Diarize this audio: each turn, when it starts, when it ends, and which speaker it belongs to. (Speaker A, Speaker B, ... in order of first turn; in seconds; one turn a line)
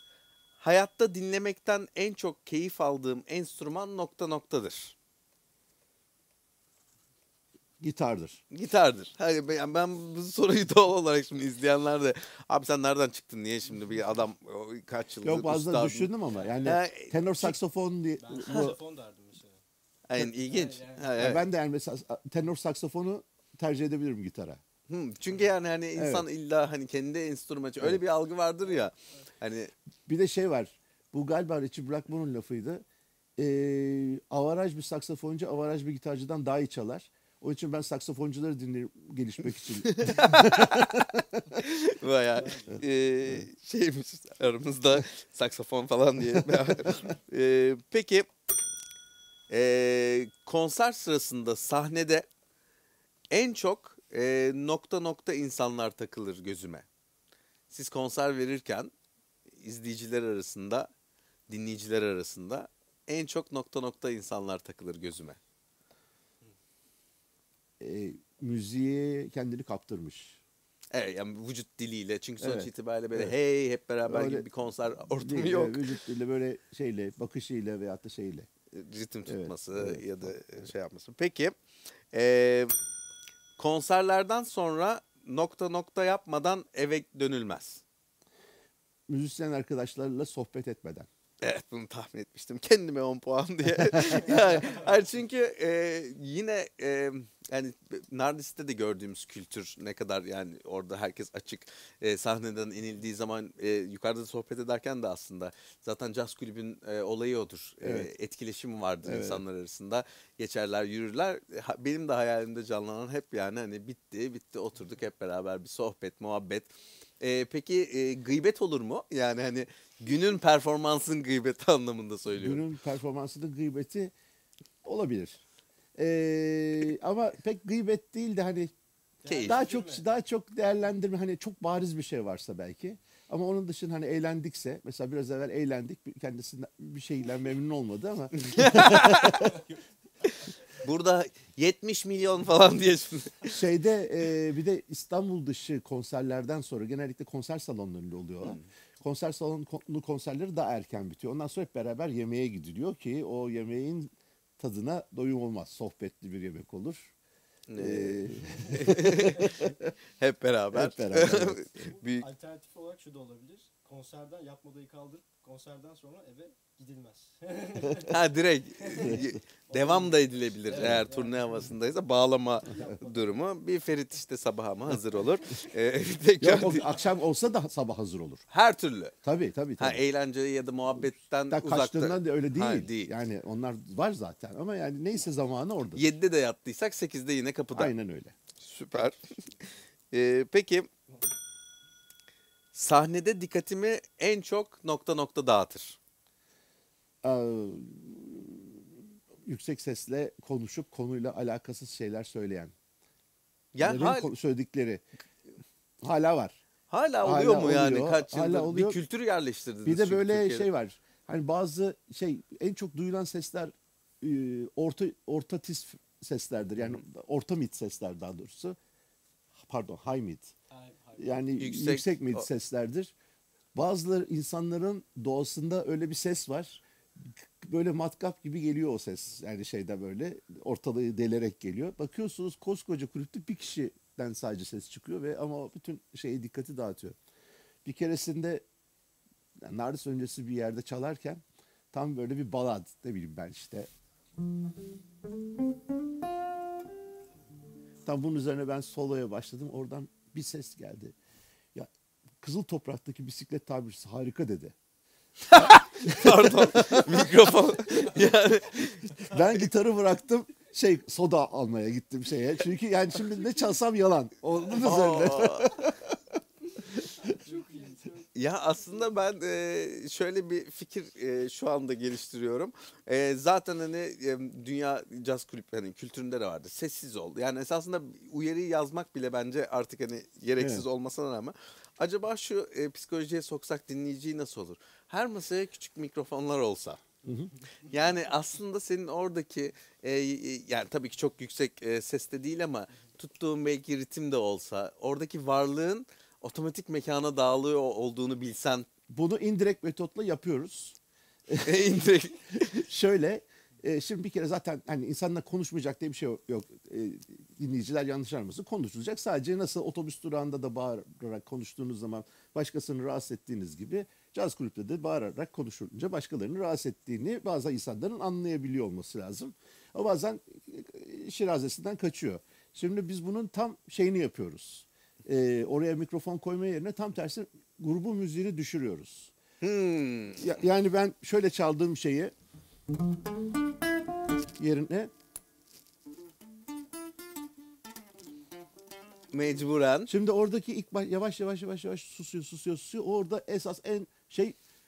Speaker A: 0.6-5.0
Speaker B: 7.8-8.4
Speaker A: 8.5-16.1
Speaker B: 15.2-18.8
Speaker C: 16.4-16.7
Speaker A: 16.6-17.5
Speaker C: 18.2-19.6
Speaker A: 18.5-18.7
Speaker A: 20.1-21.4
Speaker C: 20.4-21.1
Speaker B: 21.2-24.6
Speaker A: 24.9-29.7
Speaker B: 25.9-26.3
Speaker B: 30.1-32.8
Speaker B: 33.4-41.0
Speaker A: 39.9-48.3
Speaker C: 42.4-42.8
Speaker A: 49.5-52.3
Speaker A: 53.3-56.9
Speaker A: 57.7-58.9
Speaker A: 59.5-60.9
Speaker A: 61.5-65.4
Speaker B: 67.8-70.4
Speaker A: 70.9-76.0
Speaker B: 72.4-73.3
Speaker B: 74.0-74.5
Speaker B: 75.1-78.5
Speaker A: 78.7-81.6
Speaker B: 79.2-80.5
Speaker A: 82.1-82.7
Speaker A: 83.6-87.8
Speaker B: 89.1-91.1
Speaker A: 91.4-116.7
Speaker B: 107.8-108.1
Speaker B: 109.0-109.4
Speaker A: 117.2-122.7
Speaker B: 122.3-124.1
Speaker B: 124.8-125.4
Speaker B: 126.0-128.7
Speaker C: 129.2-130.0
Speaker A: 129.2-129.6
Speaker B: 129.4-139.6
Speaker A: 138.4-139.6
Speaker A: 140.2-143.6
Speaker B: 143.5-157.1
Speaker A: 157.7-159.6
Speaker B: 157.8-159.9
Speaker A: 160.2-162.3
Speaker B: 160.7-161.7
Speaker C: 162.0-168.2
Speaker A: 167.9-176.8
Speaker C: 168.9-171.6
Speaker B: 169.0-169.3
Speaker C: 172.6-173.2
Speaker B: 176.4-178.4
Speaker A: 178.5-179.1
Speaker B: 179.2-180.0
Speaker A: 179.8-183.1
Speaker B: 180.9-186.1
Speaker A: 185.9-187.9
Speaker B: 187.7-188.3
Speaker A: 188.6-189.4
Speaker A: 190.1-190.9
Speaker A: 192.7-196.0
Speaker B: 197.2-202.7
Speaker A: 203.7-204.3
Speaker B: 203.8-205.0
Speaker B: 206.0-206.6
Speaker A: 206.9-210.7
Speaker B: 207.2-209.0
Speaker B: 209.8-218.8
Speaker B: 219.6-220.5
Speaker C: 220.7-221.4
Speaker B: 221.2-223.1
Speaker A: 221.6-222.5
Speaker B: 223.7-237.2
Speaker B: 237.8-238.6
Speaker B: 239.6-243.9
Speaker B: 248.0-251.1
Speaker B: 252.4-254.7
Speaker A: 255.4-259.6
Speaker B: 255.5-257.3
Speaker B: 259.2-266.2
Speaker A: 264.8-265.8
Speaker B: 267.0-267.3
Speaker C: 267.4-268.2
Speaker A: 268.3-287.0
Speaker B: 280.6-280.8
Speaker B: 287.2-287.5
Speaker A: 287.9-298.9
Speaker B: 299.1-302.0
Speaker A: 301.6-302.8
Speaker B: 302.7-329.3
Speaker A: 329.6-330.5
Speaker B: 330.4-332.3
Speaker B: 334.6-335.1
Speaker A: 339.3-340.1
Speaker B: 340.1-344.6